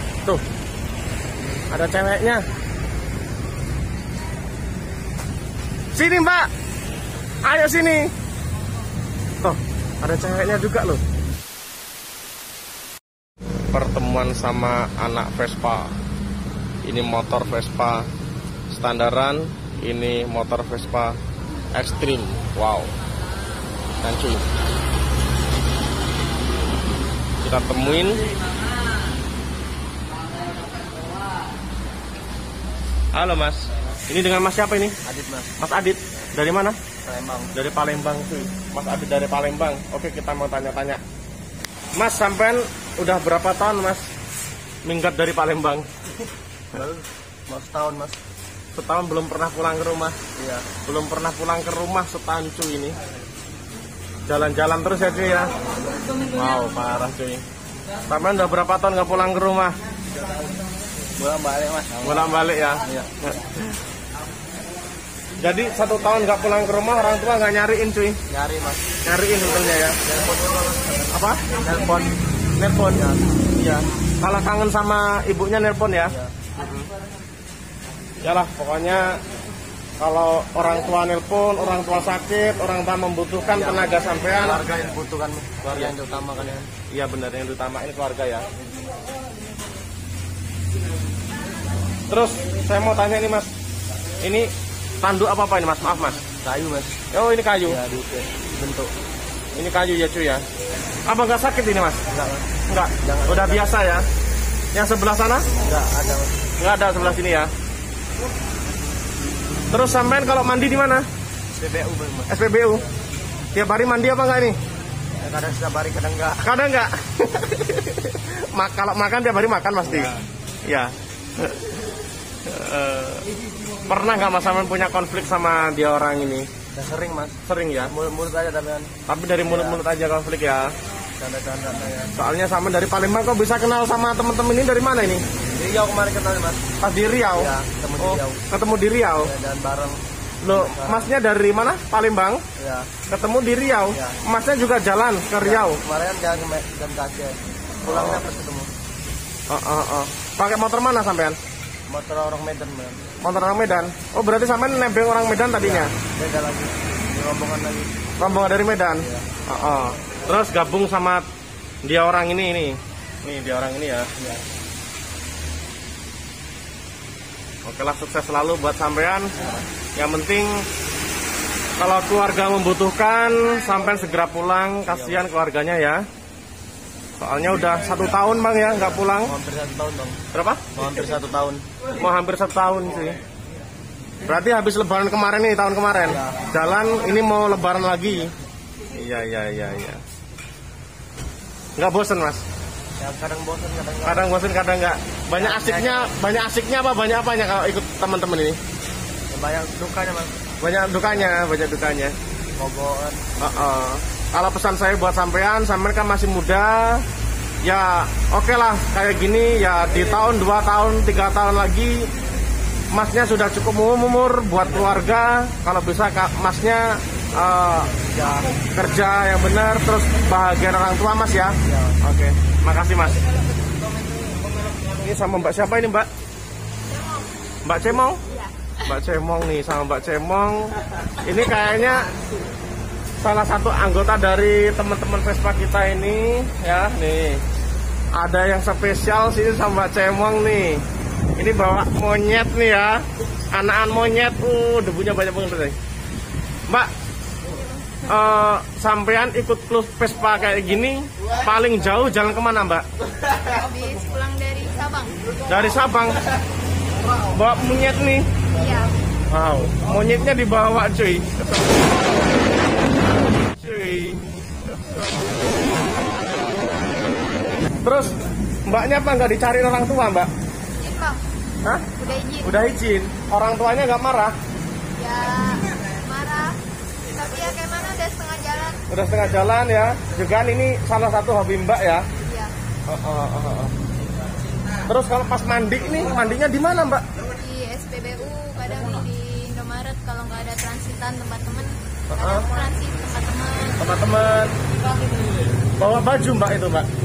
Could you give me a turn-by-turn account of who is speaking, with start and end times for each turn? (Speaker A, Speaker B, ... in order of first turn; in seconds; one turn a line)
Speaker A: 1.7-2.4
Speaker A: 6.0-6.5
Speaker A: 7.4-8.1
Speaker A: 9.4-11.0
Speaker A: 13.7-15.9
Speaker A: 16.8-18.1
Speaker A: 18.7-21.2
Speaker A: 21.7-22.9
Speaker A: 24.0-24.5
Speaker A: 27.4-28.2
Speaker A: 33.1-35.0
Speaker B: 35.0-35.6
Speaker A: 35.6-36.8
Speaker B: 37.0-37.5
Speaker A: 37.5-41.0
Speaker A: 42.0-44.1
Speaker A: 44.9-45.9
Speaker B: 46.7-48.2
Speaker A: 48.8-50.2
Speaker B: 50.4-50.7
Speaker A: 50.9-53.0
Speaker A: 54.3-55.5
Speaker A: 56.3-57.4
Speaker A: 58.1-59.8
Speaker B: 61.2-63.1
Speaker A: 62.0-63.7
Speaker A: 65.4-68.2
Speaker B: 68.3-68.9
Speaker A: 69.0-70.0
Speaker B: 70.0-72.1
Speaker A: 71.1-71.5
Speaker A: 72.6-76.9
Speaker B: 72.9-73.2
Speaker B: 76.0-76.3
Speaker A: 78.2-79.2
Speaker A: 80.0-84.7
Speaker B: 83.4-86.7
Speaker A: 85.6-86.0
Speaker A: 86.9-88.5
Speaker A: 92.1-93.5
Speaker A: 94.2-96.2
Speaker B: 96.4-97.0
Speaker A: 97.1-97.8
Speaker B: 97.7-98.9
Speaker A: 99.6-100.4
Speaker A: 101.1-102.0
Speaker B: 102.1-102.5
Speaker A: 102.7-104.1
Speaker B: 103.0-103.9
Speaker A: 104.7-105.5
Speaker B: 105.6-106.4
Speaker A: 106.6-107.5
Speaker A: 109.7-111.1
Speaker B: 111.5-112.3
Speaker A: 112.3-112.8
Speaker A: 113.5-114.6
Speaker B: 115.2-116.5
Speaker A: 116.4-121.8
Speaker A: 122.5-123.3
Speaker A: 123.9-126.5
Speaker B: 126.7-129.8
Speaker A: 127.5-127.9
Speaker A: 129.1-130.7
Speaker B: 131.2-132.1
Speaker A: 132.2-135.2
Speaker B: 135.5-136.7
Speaker A: 136.8-139.3
Speaker B: 137.3-138.4
Speaker B: 139.2-140.0
Speaker A: 140.4-142.4
Speaker B: 140.5-141.1
Speaker B: 142.6-142.9
Speaker A: 143.1-145.8
Speaker B: 143.9-144.2
Speaker B: 145.4-148.7
Speaker A: 147.9-148.2
Speaker A: 149.5-151.4
Speaker B: 151.9-153.1
Speaker A: 153.2-155.9
Speaker B: 155.6-158.0
Speaker A: 158.2-161.3
Speaker B: 159.0-159.3
Speaker A: 161.8-164.1
Speaker A: 167.7-169.3
Speaker B: 169.4-169.6
Speaker A: 169.9-170.7
Speaker A: 171.8-176.0
Speaker B: 174.9-175.2
Speaker A: 177.2-179.3
Speaker B: 179.3-180.2
Speaker A: 180.3-180.7
Speaker B: 180.7-181.6
Speaker A: 182.0-183.2
Speaker A: 184.2-188.3
Speaker B: 186.1-186.5
Speaker A: 188.9-190.0
Speaker A: 191.8-192.4
Speaker B: 193.0-194.3
Speaker A: 194.0-198.6
Speaker B: 195.3-196.1
Speaker B: 199.3-200.5
Speaker A: 200.6-202.2
Speaker B: 202.6-203.2
Speaker A: 203.4-207.1
Speaker A: 207.6-212.1
Speaker A: 212.9-217.9
Speaker B: 218.0-218.5
Speaker A: 218.7-223.2
Speaker B: 221.6-222.0
Speaker A: 225.0-226.1
Speaker C: 226.9-227.3
Speaker A: 227.7-228.2
Speaker A: 228.8-232.1
Speaker A: 233.2-237.4
Speaker A: 238.1-240.8
Speaker A: 241.4-245.8
Speaker C: 247.5-248.0
Speaker A: 248.1-252.9
Speaker C: 253.3-255.4
Speaker A: 255.5-256.2
Speaker A: 257.3-258.3
Speaker C: 258.6-258.9
Speaker A: 259.3-261.7
Speaker A: 263.4-264.3
Speaker A: 267.8-268.1
Speaker A: 268.7-270.3
Speaker C: 270.8-271.2
Speaker A: 271.6-271.9
Speaker C: 272.0-272.6
Speaker A: 272.4-274.4
Speaker C: 275.0-276.6
Speaker C: 277.1-278.8
Speaker A: 278.9-282.1
Speaker C: 282.2-282.5
Speaker A: 282.9-283.7
Speaker A: 284.9-287.1
Speaker C: 287.4-293.9
Speaker A: 292.1-292.6
Speaker A: 293.8-294.5
Speaker A: 295.8-296.9